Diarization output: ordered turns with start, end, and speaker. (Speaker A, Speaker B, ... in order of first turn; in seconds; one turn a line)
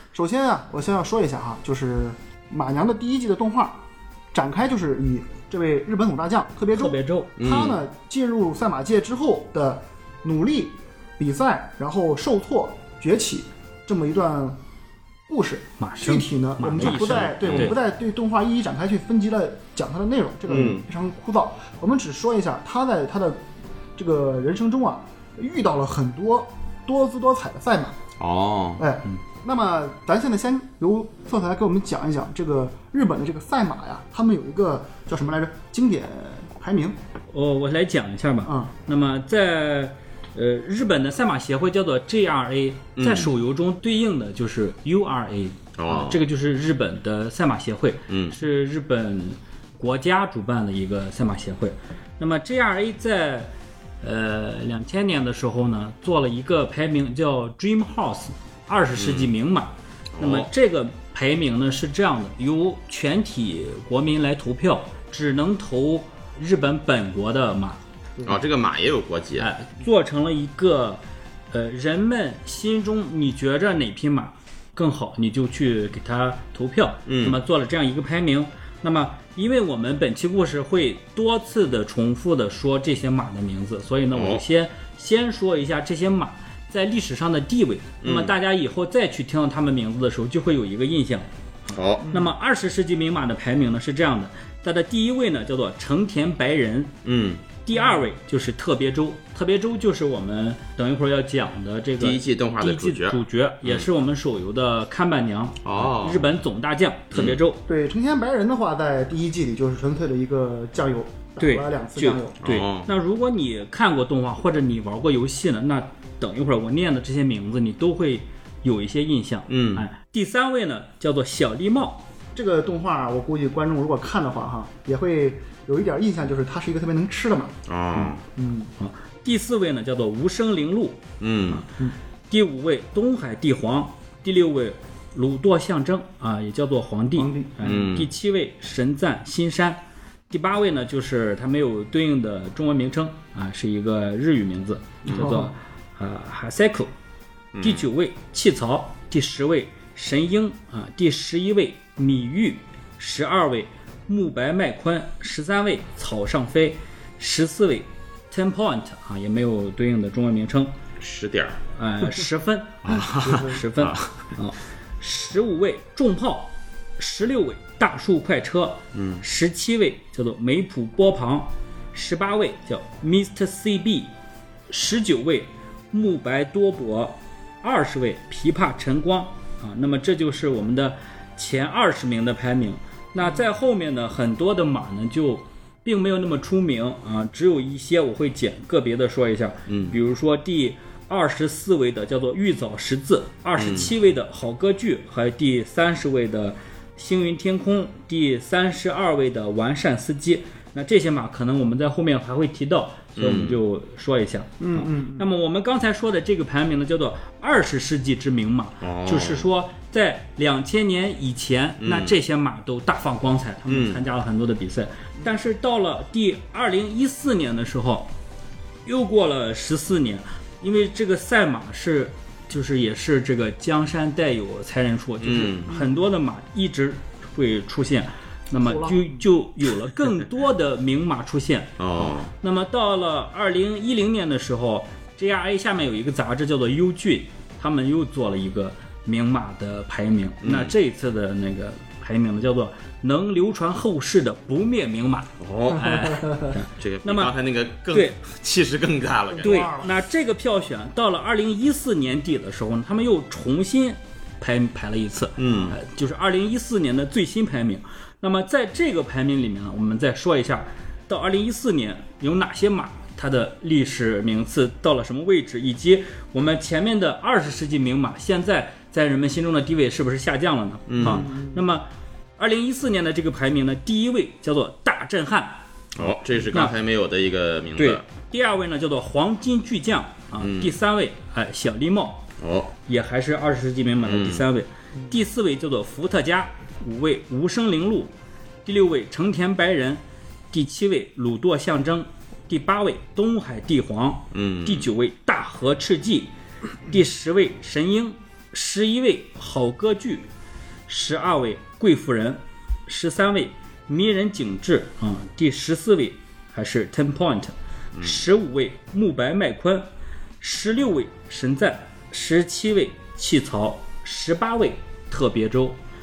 Speaker A: 0.1-3.8
Speaker A: 4.3-14.6
Speaker B: 6.7-7.3
Speaker C: 7.4-7.8
Speaker A: 15.3-23.4
Speaker B: 15.8-17.8
Speaker C: 16.8-17.8
Speaker C: 20.5-20.8
Speaker A: 24.0-28.0
Speaker C: 28.2-28.8
Speaker A: 28.8-37.0
Speaker B: 37.3-67.8
Speaker A: 38.4-38.7
Speaker C: 43.0-43.3
Speaker C: 45.8-46.2
Speaker C: 48.1-48.4
Speaker C: 59.0-59.3
Speaker C: 60.1-60.5
Speaker C: 68.2-69.5
Speaker B: 69.4-97.0
Speaker C: 77.0-77.4
Speaker C: 84.1-84.4
Speaker C: 88.0-88.3
Speaker C: 91.7-92.1
Speaker A: 92.0-92.3
Speaker C: 97.0-97.4
Speaker B: 97.6-107.6
Speaker A: 97.7-98.1
Speaker C: 102.0-103.9
Speaker C: 105.6-106.3
Speaker C: 107.1-107.4
Speaker A: 107.7-112.4
Speaker B: 111.4-122.0
Speaker C: 112.4-112.9
Speaker C: 119.5-119.8
Speaker A: 122.3-127.6
Speaker C: 127.7-128.2
Speaker A: 128.3-128.7
Speaker B: 128.8-131.6
Speaker C: 131.2-131.6
Speaker B: 132.3-146.9
Speaker A: 137.2-137.7
Speaker C: 137.6-138.1
Speaker C: 145.1-145.3
Speaker A: 145.1-145.5
Speaker C: 147.5-147.8
Speaker B: 147.6-160.7
Speaker C: 161.0-161.6
Speaker B: 161.7-174.1
Speaker C: 162.8-164.1
Speaker A: 163.2-163.6
Speaker C: 168.9-169.2
Speaker B: 174.7-218.1
Speaker C: 189.7-190.0
Speaker C: 193.6-193.9
Speaker C: 203.2-203.6
Speaker A: 204.6-205.3
Speaker C: 208.8-209.5
Speaker C: 211.8-212.2
Speaker C: 213.7-214.0
Speaker B: 218.8-247.3
Speaker C: 225.2-225.8
Speaker A: 228.6-229.2
Speaker C: 231.8-232.3
Speaker C: 240.4-240.7
Speaker C: 245.4-246.2
Speaker C: 246.8-249.7
Speaker B: 247.9-248.2
Speaker A: 249.3-249.9
Speaker B: 249.4-276.7
Speaker C: 255.4-255.8
Speaker C: 270.9-271.3
Speaker A: 271.0-271.6
Speaker C: 276.0-278.0
Speaker B: 277.8-282.2
Speaker C: 280.4-280.7
Speaker C: 282.4-282.7
Speaker B: 282.9-288.1
Speaker C: 284.0-284.4
Speaker B: 288.6-296.3
Speaker C: 294.3-294.9
Speaker B: 296.9-300.3
Speaker B: 300.9-309.9
Speaker C: 307.9-308.2
Speaker B: 310.4-315.8